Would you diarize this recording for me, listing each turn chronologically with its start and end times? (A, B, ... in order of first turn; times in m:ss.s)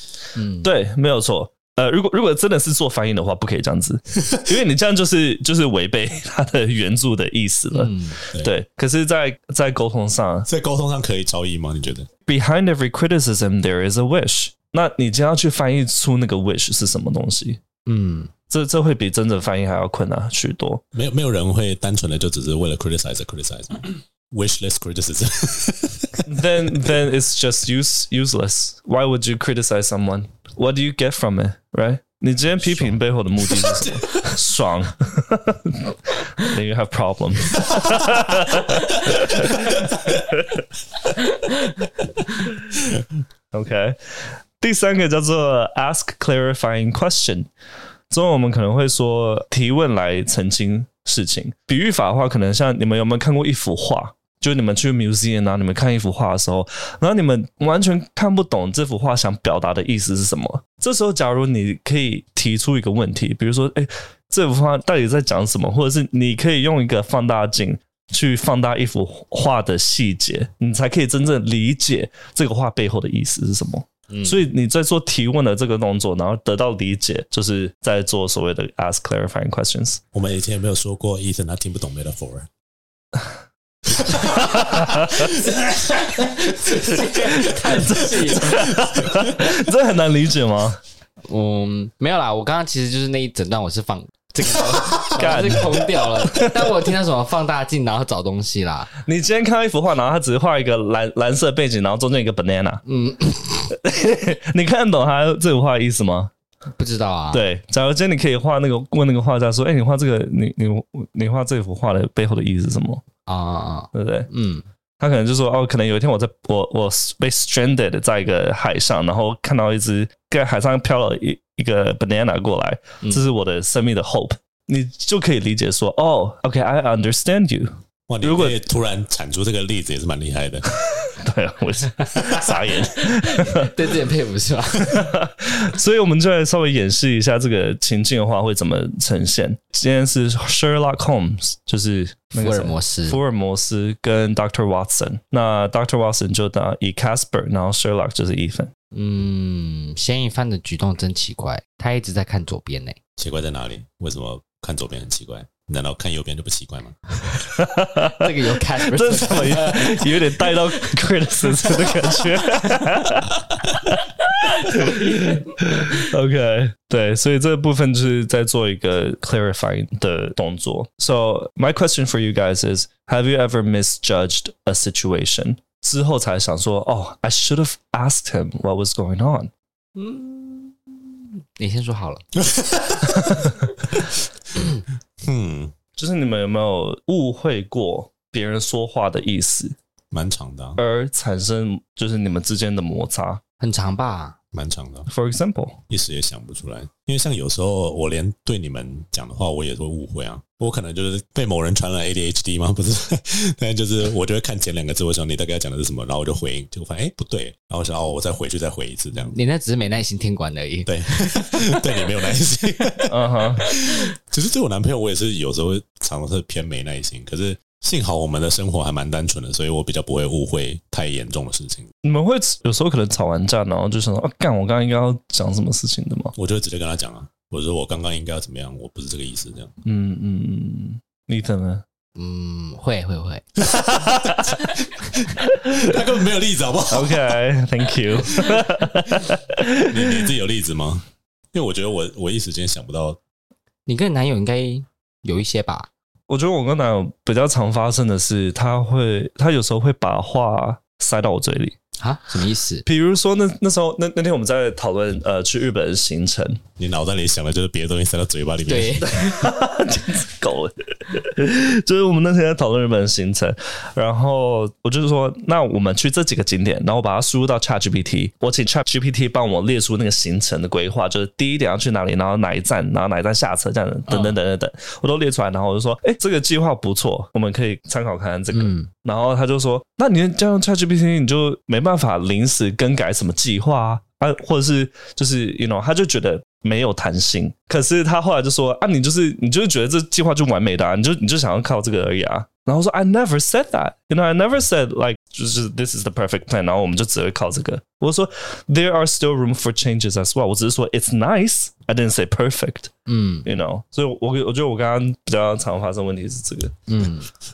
0:00.4-0:00.7 A
0:00.6-0:10.5 B
0:07.7-0:08.2 A
0:10.5-0:12.1 C
0:12.3-0:17.6 B
0:17.9-0:18.3 A
0:18.5-0:20.8 B
0:20.9-0:26.3 C
0:26.3-0:40.6 B
0:32.6-0:34.2 C
0:39.4-0:40.1 C
0:43.5-0:47.5 B
0:48.1-1:20.0 B
1:14.1-1:14.4 A
1:20.1-1:22.5 C
1:23.9-1:26.3 C
1:24.1-1:25.4 B
1:25.4-1:28.7 A
1:26.9-1:30.8 B
1:28.5-1:29.5 C
1:31.3-1:38.9 A
1:34.6-1:35.9 C
1:35.2-1:36.6 B
1:39.0-1:42.8 B
1:42.9-1:43.7 A
1:43.8-1:46.3 B
1:46.8-1:47.4 A
1:47.3-1:53.0 B
1:53.3-1:54.6 A
1:53.9-1:54.3 B
1:55.0-2:08.6 B
2:08.1-2:10.7 C
2:11.0-2:13.7 B
2:13.0-2:15.1 A
2:14.8-2:28.7 B
2:22.4-2:23.2 A
2:28.9-2:33.0 A
2:33.2-2:37.0 C
2:37.5-2:59.5 B
2:38.0-2:40.8 A
2:44.6-2:45.5 A
3:00.0-3:00.8 A
3:01.6-3:02.2 A
3:02.4-3:03.6 C
3:03.2-3:03.5 B
3:05.2-3:05.7 C
3:06.0-3:09.8 B
3:10.1-3:10.8 C
3:10.8-3:13.4 B
3:13.6-3:14.4 A
3:14.5-3:15.1 C
3:15.1-3:15.8 B
3:15.9-3:29.4 C
3:29.3-3:32.1 A
3:30.9-3:41.9 C
3:33.1-3:33.7 B
3:33.7-3:34.0 A
3:42.0-3:46.3 B
3:46.4-3:49.7 C
3:49.8-3:51.8 B
3:52.2-3:53.5 A
3:53.7-3:57.4 C
3:53.8-3:54.6 B
3:56.9-4:00.3 B
3:58.3-3:58.6 C
3:59.9-4:03.2 C
4:03.9-4:05.9 A
4:06.3-4:11.8 B
4:12.0-4:12.8 A
4:12.8-4:16.6 B
4:16.8-4:19.1 C
4:18.7-4:19.5 A
4:19.0-5:02.9 B
4:34.1-4:34.4 A
4:38.5-4:38.9 A
5:03.1-5:03.5 A
5:03.4-5:06.8 B
5:06.9-5:07.3 A